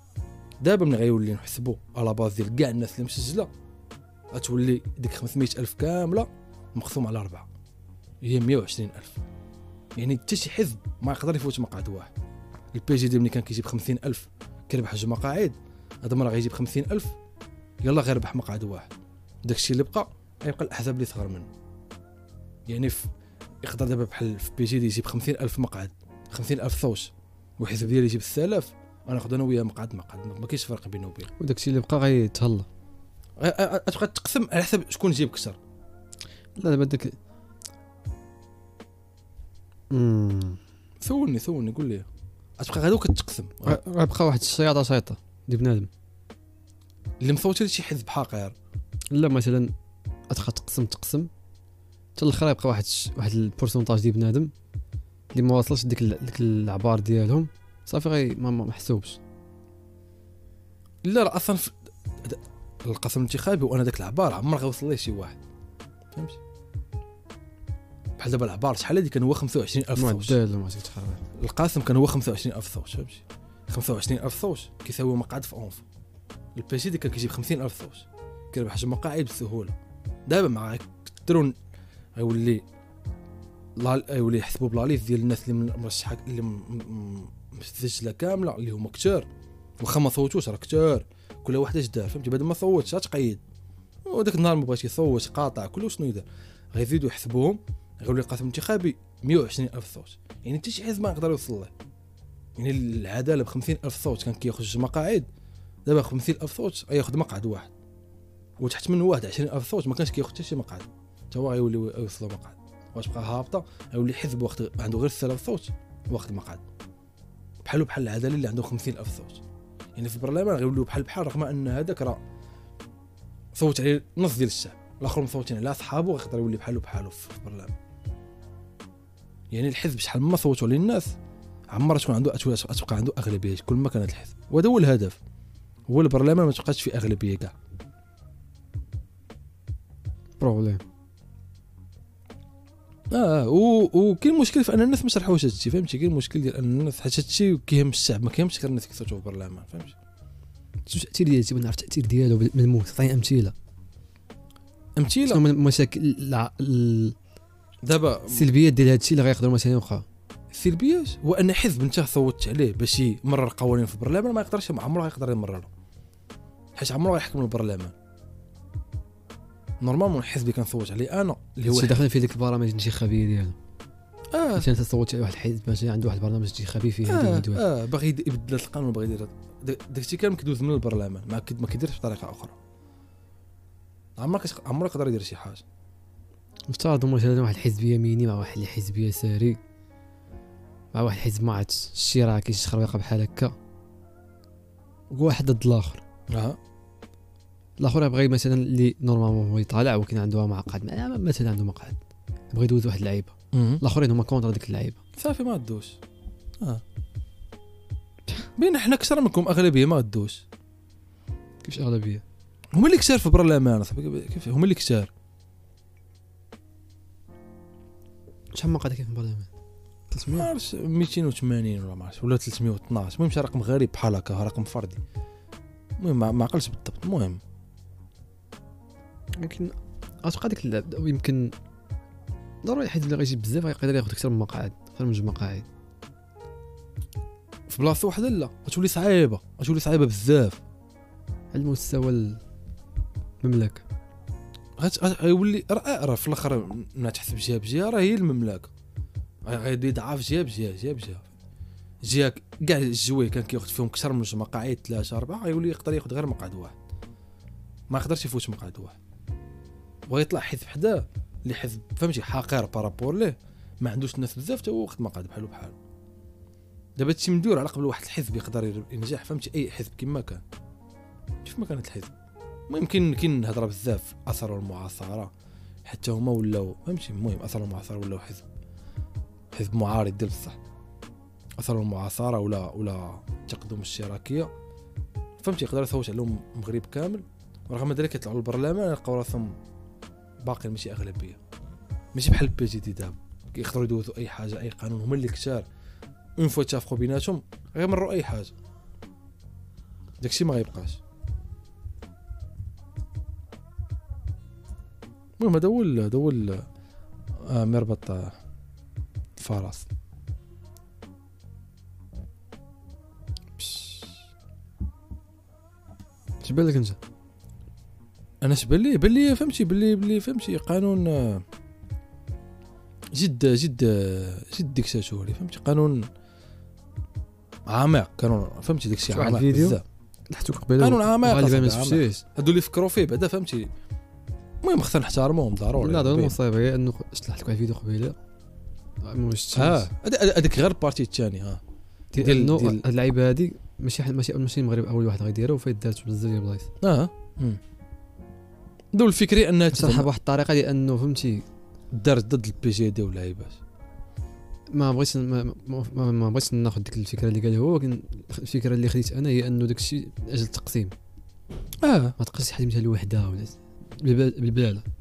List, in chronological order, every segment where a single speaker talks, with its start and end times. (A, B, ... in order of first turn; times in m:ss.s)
0:00.6-0:03.5 A
0:04.3-0:07.5 A
0:08.2-0:09.2 A
0:10.0-0:12.1 A
0:12.7-0:17.2 A
0:17.8-0:18.9 A
0:19.5-0:21.5 A
0:22.7-0:23.1 A
0:23.6-0:31.3 A
0:31.4-0:32.7 B
0:33.4-0:35.6 A
0:36.6-0:37.2 B
0:39.9-0:40.6 B
0:41.0-0:42.1 A
0:42.6-0:43.8 A
0:43.6-0:45.9 B
0:47.2-0:48.6 A
0:49.1-0:49.7 B
0:50.3-0:51.3 B
0:52.2-0:54.5 B
0:55.3-0:59.2 B
1:01.0-1:05.4 A
1:06.1-1:06.4 A
1:08.2-1:10.4 A
1:10.0-1:11.2 B
1:11.4-1:15.8 A
1:16.6-1:19.7 A
1:20.3-1:21.6 A
1:22.2-1:22.6 A
1:23.8-1:29.3 A
1:29.8-1:33.4 A
1:34.1-1:41.7 A
1:42.6-1:45.3 A
1:45.9-1:47.7 A
1:48.6-1:56.6 A
1:57.6-1:59.4 A
2:00.0-2:02.2 A
2:03.6-2:07.8 A
2:09.5-2:11.1 A
2:11.7-2:15.2 A
2:15.9-2:17.5 A
2:20.4-2:20.8 B
2:23.1-2:30.0 A
2:30.9-2:33.5 B
2:35.0-2:35.4 A
2:35.3-2:37.2 B
2:37.9-2:38.5 A
2:38.3-2:40.0 B
2:40.5-2:45.7 A
2:46.8-2:47.9 A
2:49.8-2:52.0 A
2:51.7-2:53.6 B
2:54.3-2:54.7 A
2:54.6-2:57.6 B
2:57.1-3:02.6 A
3:04.2-3:05.6 A
3:06.7-3:09.6 B
3:10.9-3:13.6 B
3:15.1-3:16.0 B
3:16.3-3:16.6 A
3:17.8-3:22.0 B
3:22.5-3:25.0 B
3:23.5-3:23.8 A
3:25.2-3:26.0 A
3:28.6-3:30.4 A
3:31.6-3:32.2 B
3:32.7-3:35.1 A
3:38.5-3:39.5 B
3:40.1-3:40.5 B
3:40.3-3:45.0 A
3:46.0-3:47.4 A
3:49.4-3:51.5 B
3:52.6-3:55.7 B
3:57.7-4:00.6 A
4:01.5-4:02.4 B
4:03.4-4:03.8 B
4:04.8-4:08.7 A
4:09.5-4:11.2 A
4:12.0-4:16.7 A
4:17.9-4:19.0 A
4:20.1-4:25.8 A
4:27.0-4:30.4 A
4:31.4-4:32.1 A
4:32.7-4:35.3 A
4:35.9-4:38.5 A
4:39.5-4:40.6 A
4:41.6-4:44.5 A
4:45.4-4:49.6 A
4:50.4-4:51.4 A
4:52.1-4:55.7 A
4:56.4-4:58.5 A
5:00.2-5:01.0 A
5:05.4-5:06.7 A
5:07.5-5:08.4 A
5:09.4-5:09.9 A
5:13.6-5:14.1 B
5:16.4-5:17.0 B
5:18.4-5:21.4 A
5:23.1-5:26.1 A
5:27.7-5:29.8 A
5:29.1-5:32.2 B
5:30.8-5:33.7 A
5:34.6-5:36.4 A
5:35.8-5:38.2 B
5:39.0-5:39.9 B
5:39.6-5:41.6 A
5:42.1-5:46.7 B
5:42.2-5:42.8 A
5:46.8-5:47.6 A
5:48.9-5:50.1 A
5:49.7-5:51.4 B
5:51.9-5:53.6 A
5:54.7-6:00.9 B
6:01.8-6:02.2 A
6:02.2-6:04.9 B